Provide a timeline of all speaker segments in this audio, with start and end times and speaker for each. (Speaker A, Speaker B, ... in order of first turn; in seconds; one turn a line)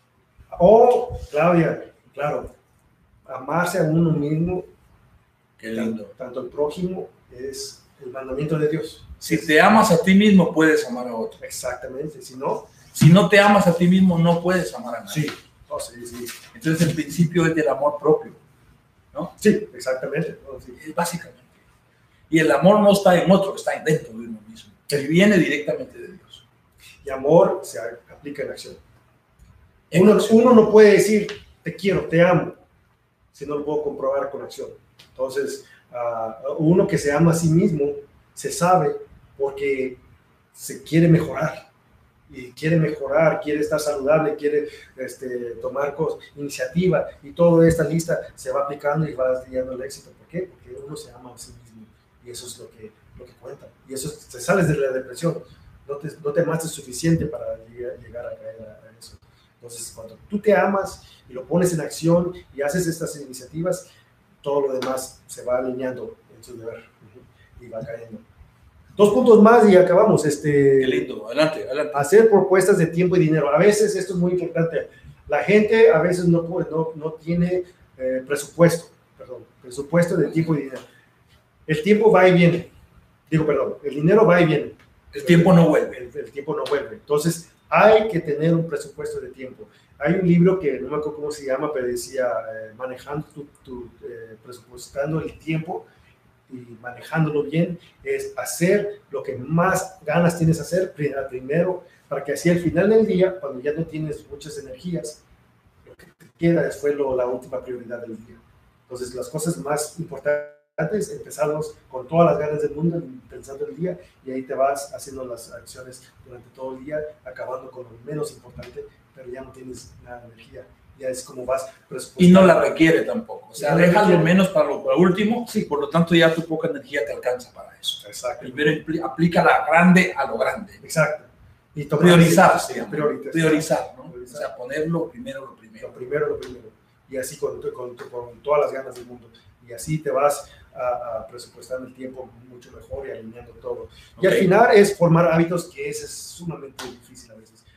Speaker A: 0.5-2.5
Speaker A: 3.3-4.7
Speaker B: 5.6-6.1
Speaker A: 5.7-9.5
Speaker B: 9.2-11.4
Speaker A: 11.4-12.7
Speaker B: 12.9-15.3
Speaker A: 15.1-16.4
Speaker B: 16.5-18.4
Speaker A: 19.4-20.8
Speaker B: 20.8-21.5
Speaker B: 22.3-26.4
Speaker A: 27.0-28.8
Speaker B: 29.9-30.5
Speaker A: 29.9-32.6
Speaker A: 33.3-40.0
Speaker A: 40.5-41.7
Speaker A: 42.3-63.9
Speaker A: 64.4-68.2
Speaker A: 69.0-71.1
Speaker B: 70.8-72.1
Speaker A: 71.9-80.8
Speaker A: 81.7-82.7
Speaker A: 83.3-95.8
Speaker B: 85.1-86.0
Speaker A: 96.5-105.2
Speaker A: 105.8-122.7
Speaker B: 122.2-130.8
Speaker A: 123.6-124.3
Speaker A: 128.0-128.8
Speaker A: 130.8-134.5
Speaker B: 132.0-136.0
Speaker A: 135.8-147.6
Speaker B: 144.2-144.5